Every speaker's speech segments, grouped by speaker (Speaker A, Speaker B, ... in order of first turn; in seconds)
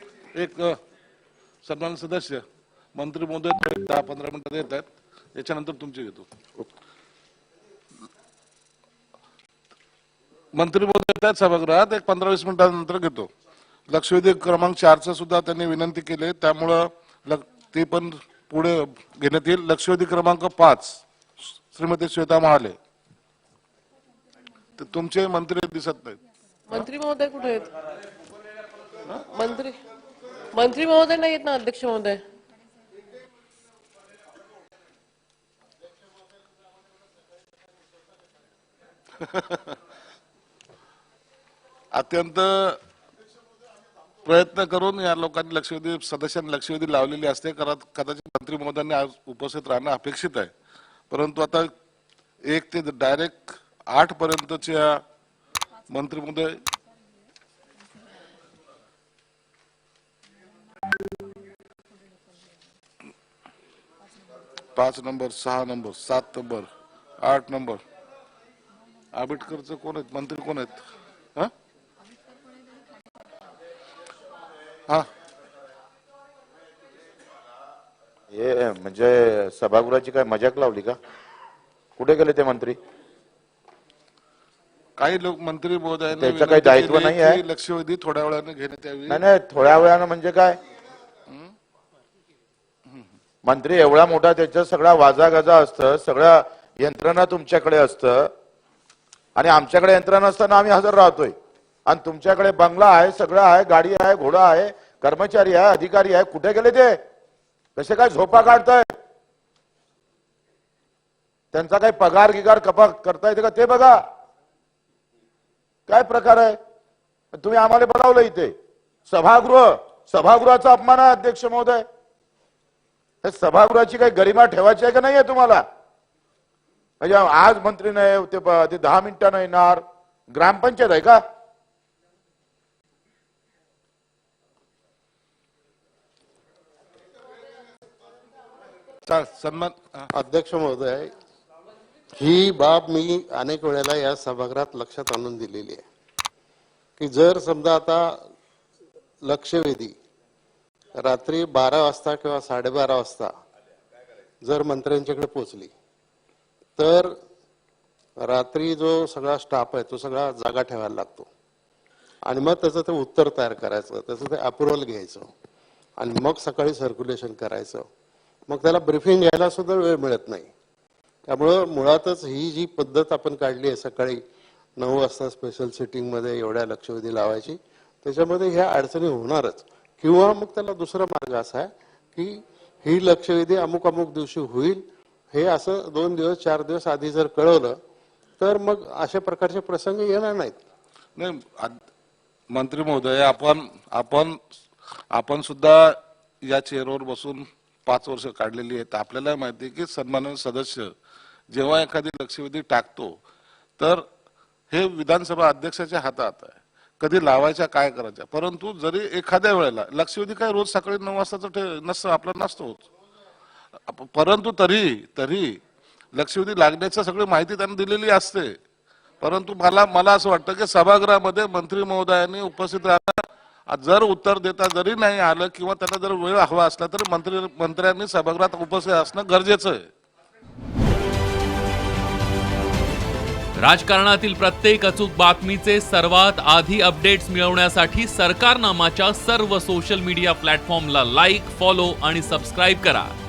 Speaker A: 0.3-0.8, 1.6-6.3, 10.5-13.3, 13.9-22.8, 24.8-26.2, 39.2-39.7, 41.9-42.8, 44.2-50.5, 51.1-51.7, 52.5-55.0, 55.9-56.6, 64.8-66.7, 67.2-67.8, 69.1-71.5, 85.0-89.2, 139.1-140.1, 191.2-191.8, 192.5-194.4, 195.1-200.9, 201.5-203.2, 203.8-204.1, 204.7-212.9, 213.9-215.6, 216.1-218.6, 219.2-229.9
Speaker B: 26.7-27.7, 29.2-29.8, 30.5-32.2
Speaker C: 78.3-81.0, 82.0-82.8, 86.2-87.4, 89.1-90.6, 93.4-98.3, 99.3-101.3, 101.8-107.0, 107.8-108.9, 111.5-114.0, 115.9-116.5, 117.3-118.5, 119.1-121.8, 123.2-125.6, 127.0-131.2
Speaker D: 140.1-141.1, 142.1-145.8, 147.0-148.2, 149.2-149.9, 150.9-153.3, 154.4-155.7, 156.8-157.1, 158.2-161.3, 162.2-165.3, 166.0-167.9, 168.5-170.5, 171.2-174.2, 174.8-187.8, 188.4-190.6
Speaker E: 233.6-243.1